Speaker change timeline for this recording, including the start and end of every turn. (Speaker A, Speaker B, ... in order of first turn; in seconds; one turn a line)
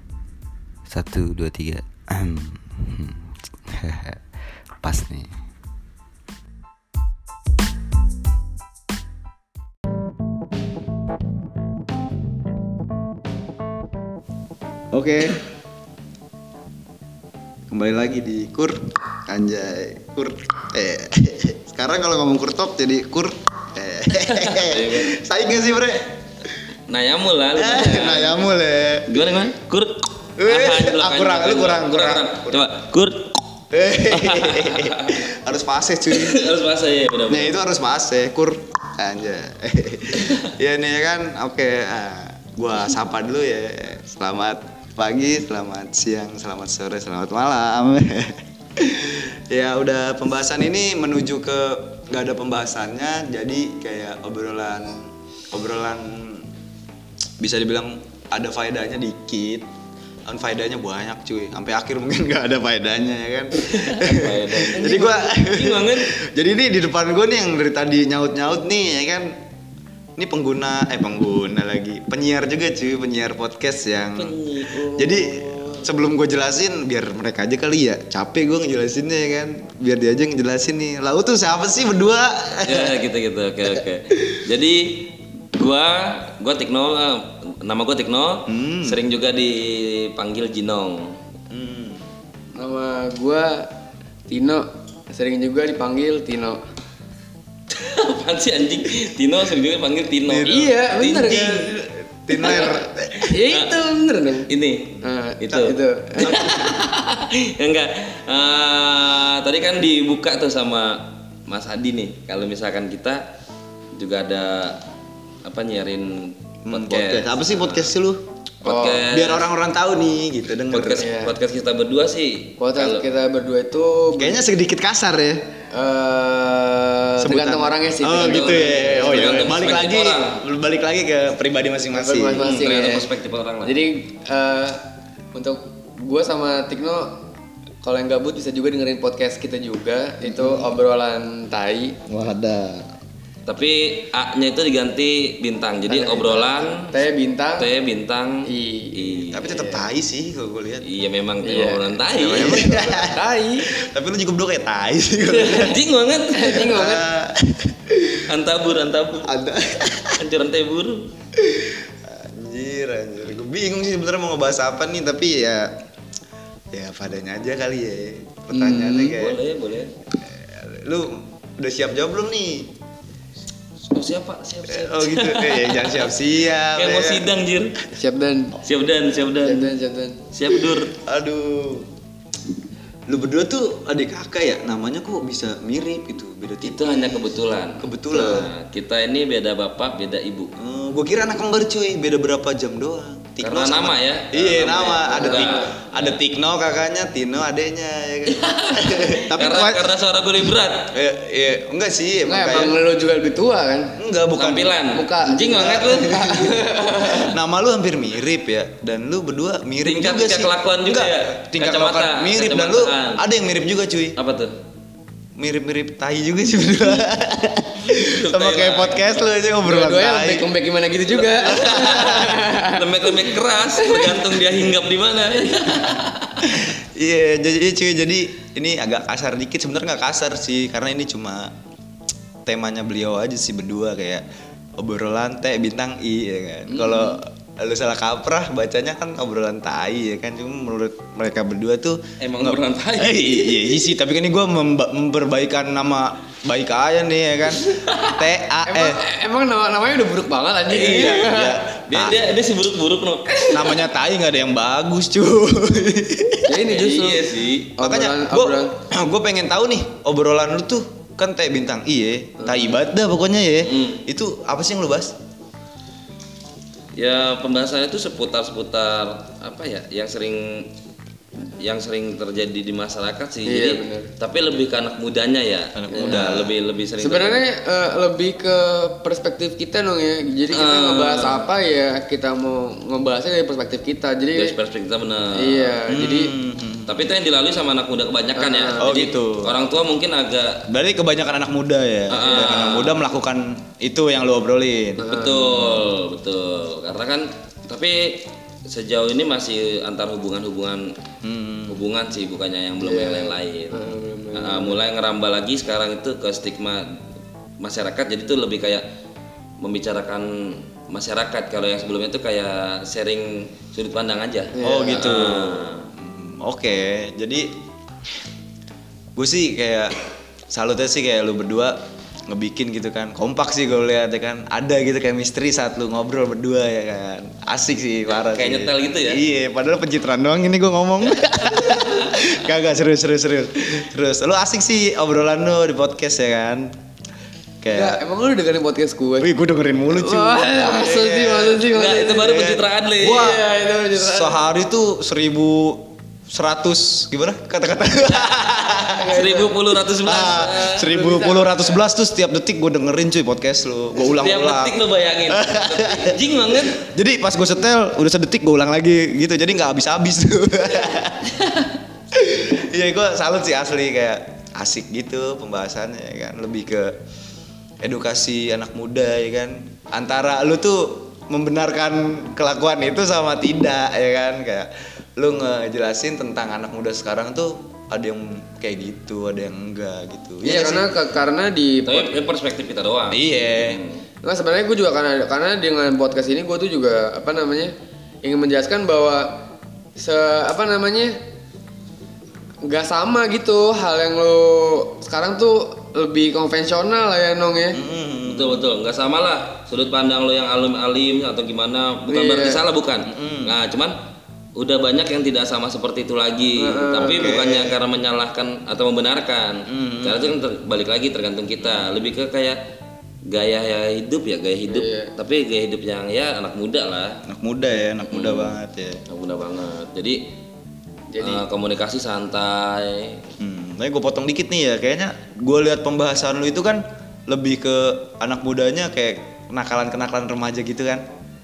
Speaker A: 0.9-3.1
Speaker A: 3.7-4.2
Speaker A: 4.8-5.3
Speaker B: 14.9-15.4
Speaker B: 17.7-26.1
Speaker C: 24.1-25.2
Speaker C: 26.9-28.5
Speaker B: 27.6-29.2
Speaker C: 29.1-33.4
Speaker B: 30.4-32.6
Speaker B: 33.7-36.5
Speaker C: 34.1-35.2
Speaker C: 36.1-37.6
Speaker B: 37.3-56.5
Speaker B: 57.4-59.7
Speaker B: 60.3-69.4
Speaker C: 63.6-66.1
Speaker B: 70.2-83.0
Speaker C: 74.1-75.9
Speaker C: 82.7-91.2
Speaker B: 88.5-89.0
Speaker B: 91.5-92.0
Speaker D: 92.6-93.7
Speaker D: 94.3-96.6
Speaker C: 97.7-101.5
Speaker B: 100.3-103.4
Speaker D: 100.5-101.6
Speaker D: 102.3-104.5
Speaker C: 103.5-103.7
Speaker C: 104.5-113.2
Speaker D: 105.0-106.7
Speaker C: 114.0-114.8
Speaker C: 115.5-117.9
Speaker B: 116.7-118.2
Speaker D: 118.6-119.0
Speaker C: 118.6-119.5
Speaker B: 118.8-121.1
Speaker C: 120.7-123.0
Speaker D: 121.0-121.3
Speaker D: 122.6-124.4
Speaker B: 124.2-125.5
Speaker D: 125.7-129.4
Speaker B: 127.2-132.5
Speaker C: 128.1-130.4
Speaker D: 131.9-133.1
Speaker C: 132.4-133.7
Speaker D: 133.6-134.8
Speaker D: 135.3-137.2
Speaker D: 137.8-142.0
Speaker B: 140.2-140.8
Speaker B: 142.1-142.9
Speaker C: 143.5-146.9
Speaker D: 145.9-147.7
Speaker C: 147.6-149.6
Speaker D: 148.5-149.6
Speaker B: 149.3-150.9
Speaker C: 150.8-152.7
Speaker D: 151.4-153.7
Speaker B: 152.2-155.8
Speaker D: 155.3-155.7
Speaker C: 155.4-156.7
Speaker D: 156.3-157.1
Speaker B: 156.5-158.2
Speaker C: 158.1-159.3
Speaker B: 159.2-160.3
Speaker C: 160.1-161.1
Speaker B: 161.3-165.7
Speaker B: 166.7-169.4
Speaker D: 168.5-169.2
Speaker C: 169.1-169.9
Speaker B: 170.2-172.7
Speaker C: 173.9-176.1
Speaker B: 174.7-177.3
Speaker C: 176.7-177.8
Speaker D: 177.9-178.6
Speaker C: 178.6-179.7
Speaker D: 179.4-180.2
Speaker C: 180.3-180.9
Speaker B: 180.9-181.9
Speaker B: 183.1-188.5
Speaker C: 186.6-190.5
Speaker B: 190.6-199.9
Speaker C: 193.4-196.2
Speaker D: 195.1-195.7
Speaker C: 198.3-200.9
Speaker B: 200.9-202.8
Speaker D: 202.3-203.9
Speaker B: 204.0-204.8
Speaker C: 204.4-206.1
Speaker D: 204.9-207.3
Speaker B: 205.5-214.2
Speaker C: 209.8-213.2
Speaker C: 214.2-214.5
Speaker B: 215.4-220.5
Speaker C: 218.0-219.2
Speaker D: 219.6-224.3
Speaker C: 221.3-226.6
Speaker B: 221.5-222.3
Speaker B: 225.6-231.5
Speaker B: 232.4-234.2
Speaker B: 234.8-249.0
Speaker C: 236.8-237.1
Speaker C: 242.2-243.8
Speaker D: 248.7-251.6
Speaker C: 250.7-253.5
Speaker B: 250.7-252.2
Speaker D: 253.3-253.6
Speaker B: 253.5-256.6
Speaker D: 256.5-258.7
Speaker C: 256.7-257.7
Speaker B: 257.8-265.2
Speaker C: 263.6-264.0
Speaker C: 267.0-270.7
Speaker C: 271.4-277.4
Speaker D: 273.5-274.1
Speaker B: 275.8-276.5
Speaker D: 275.9-276.3
Speaker D: 277.0-284.6
Speaker C: 280.5-281.5
Speaker C: 284.4-285.8
Speaker D: 285.4-286.3
Speaker B: 285.9-287.0
Speaker C: 286.9-290.6
Speaker D: 288.4-288.9
Speaker B: 288.8-289.6
Speaker B: 290.7-295.0
Speaker C: 292.1-293.0
Speaker D: 295.0-295.6
Speaker C: 295.1-300.9
Speaker B: 295.6-295.9
Speaker B: 301.2-301.8
Speaker C: 301.7-307.0
Speaker D: 302.8-304.8
Speaker C: 307.6-308.8
Speaker C: 309.6-315.9
Speaker D: 314.5-315.1
Speaker B: 314.6-317.5
Speaker B: 319.2-320.0
Speaker B: 320.5-336.8
Speaker C: 328.1-329.2
Speaker C: 331.2-332.0
Speaker B: 337.6-338.0
Speaker D: 337.7-339.3
Speaker B: 339.2-341.7
Speaker D: 339.9-342.4
Speaker C: 341.6-343.4
Speaker B: 342.2-349.2
Speaker D: 343.1-344.4
Speaker C: 348.1-351.0
Speaker D: 348.9-349.5
Speaker B: 350.0-361.5
Speaker D: 350.9-351.6
Speaker C: 354.1-356.9
Speaker B: 362.1-366.9
Speaker B: 367.8-380.9
Speaker D: 380.4-382.2
Speaker C: 381.9-384.0
Speaker B: 383.1-383.8
Speaker D: 384.2-389.4
Speaker D: 390.0-391.1
Speaker D: 392.6-397.8
Speaker B: 397.7-398.7
Speaker C: 398.2-403.9
Speaker D: 402.1-402.6
Speaker B: 403.1-403.6
Speaker C: 404.6-412.6
Speaker D: 406.6-407.4
Speaker B: 407.1-407.8
Speaker B: 409.7-410.4
Speaker B: 411.6-411.9
Speaker C: 413.3-417.2
Speaker D: 414.7-415.1
Speaker B: 417.3-419.0
Speaker C: 418.1-418.6
Speaker C: 419.1-420.2
Speaker D: 421.1-421.4
Speaker C: 421.2-423.2
Speaker B: 423.4-431.0